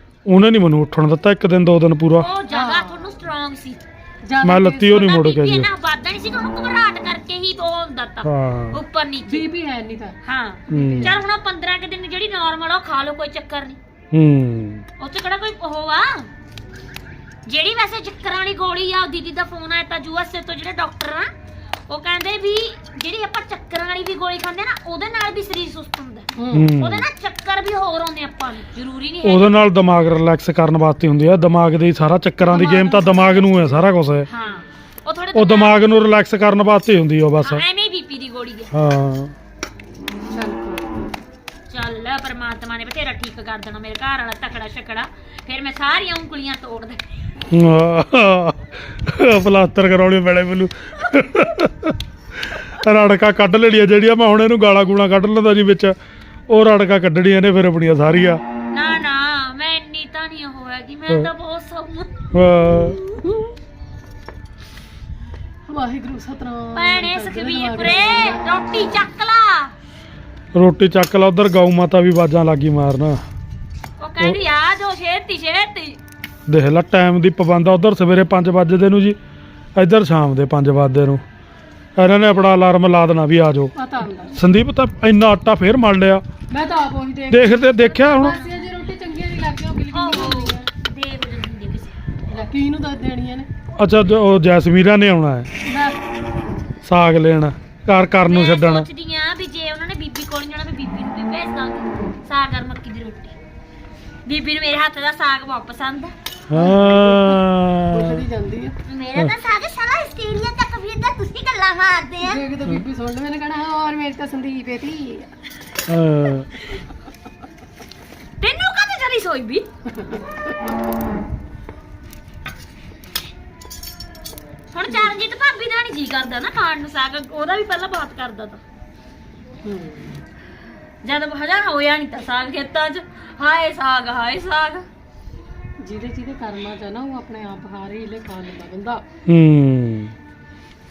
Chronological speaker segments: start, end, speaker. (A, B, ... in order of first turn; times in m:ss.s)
0:00.3-0:02.3 A
0:02.2-0:03.8 B
0:02.5-0:03.1 C
0:04.2-0:05.1 C
0:04.4-0:05.7 A
0:04.9-0:09.5 B
0:08.2-0:08.8 A
0:09.2-0:10.2 C
0:10.2-0:13.8 B
0:10.7-0:11.2 C
0:10.7-0:11.2 A
0:14.1-0:14.9 A
0:15.0-0:16.3 B
0:17.5-0:21.3 B
0:21.9-0:29.5 B
0:26.4-0:26.7 C
0:26.5-0:27.1 A
0:29.2-0:34.3 A
0:32.4-0:33.8 C
0:34.3-0:36.0 B
0:35.3-0:37.6 A
0:37.4-0:38.7 B
0:38.7-0:39.3 A
0:40.3-0:41.1 C
0:41.7-0:47.0 B
0:47.5-0:56.0 A
0:56.5-0:58.4 A
0:58.7-1:02.1 B
1:02.3-1:03.0 A
1:03.0-1:03.5 C
1:05.7-1:08.4 C
1:06.8-1:09.7 B
1:10.5-1:13.2 A
1:14.0-1:16.0 B
1:16.5-1:19.2 A
1:19.8-1:21.2 A
1:22.0-1:23.7 A
1:23.8-1:24.4 C
1:24.3-1:26.2 A
1:26.5-1:30.7 C
1:27.3-1:28.4 A
1:27.8-1:28.6 B
1:29.9-1:32.0 B
1:32.3-1:33.5 C
1:33.8-1:35.5 A
1:35.6-1:36.0 C
1:36.8-1:38.9 A
1:38.3-1:43.4 B
1:44.3-1:46.1 B
1:46.5-1:48.2 A
1:46.5-1:48.8 C
1:48.9-1:52.4 B
1:52.2-1:55.3 C
1:55.9-1:56.5 A
1:58.4-1:59.7 B
1:59.9-2:00.6 C
2:04.7-2:08.6 B
2:09.6-2:10.2 C
2:11.0-2:14.9 B
2:15.8-2:19.0 C
2:19.3-2:20.1 A